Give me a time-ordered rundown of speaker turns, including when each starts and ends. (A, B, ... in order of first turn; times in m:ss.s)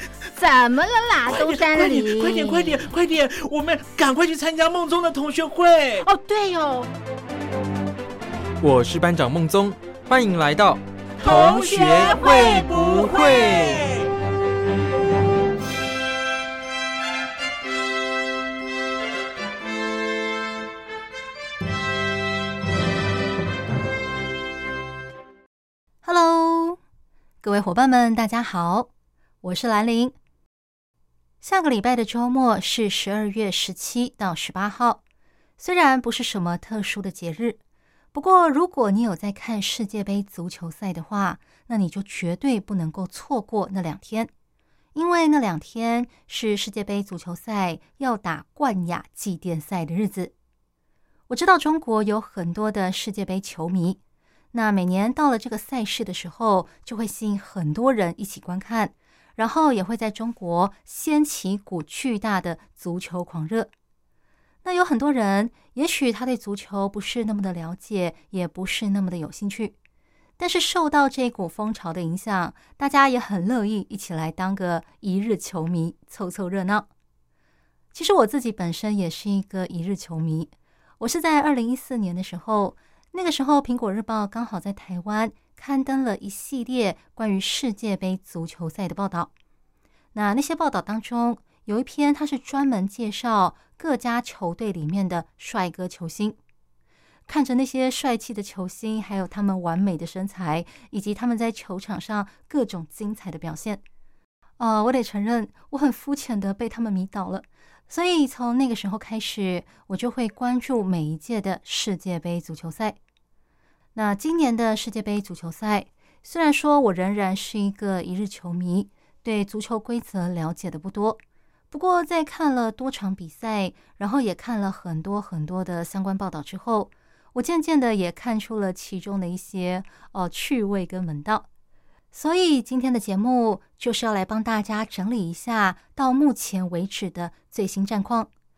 0:00.3-0:02.9 A
0:01.3-0:06.0 B
0:06.0-0:06.9 A
0:08.6-0:13.8 C
0:11.2-0:13.7 A
0:11.2-0:14.0 B
0:26.0-0:26.8 D
0:27.4-0:28.9 D
0:29.4-0:30.2 D
0:31.4-0:35.0 D
0:35.6-0:37.6 D
0:38.1-0:44.3 D
0:44.9-0:50.3 D
0:51.3-0:54.0 D
0:54.5-1:03.7 D
1:04.6-1:09.8 D
1:10.4-1:16.9 D
1:17.9-1:29.3 D
1:30.1-1:36.4 D
1:37.3-1:43.8 D
1:44.6-1:53.0 D
1:53.9-2:01.2 D
2:01.7-2:11.5 D
2:12.1-2:18.3 D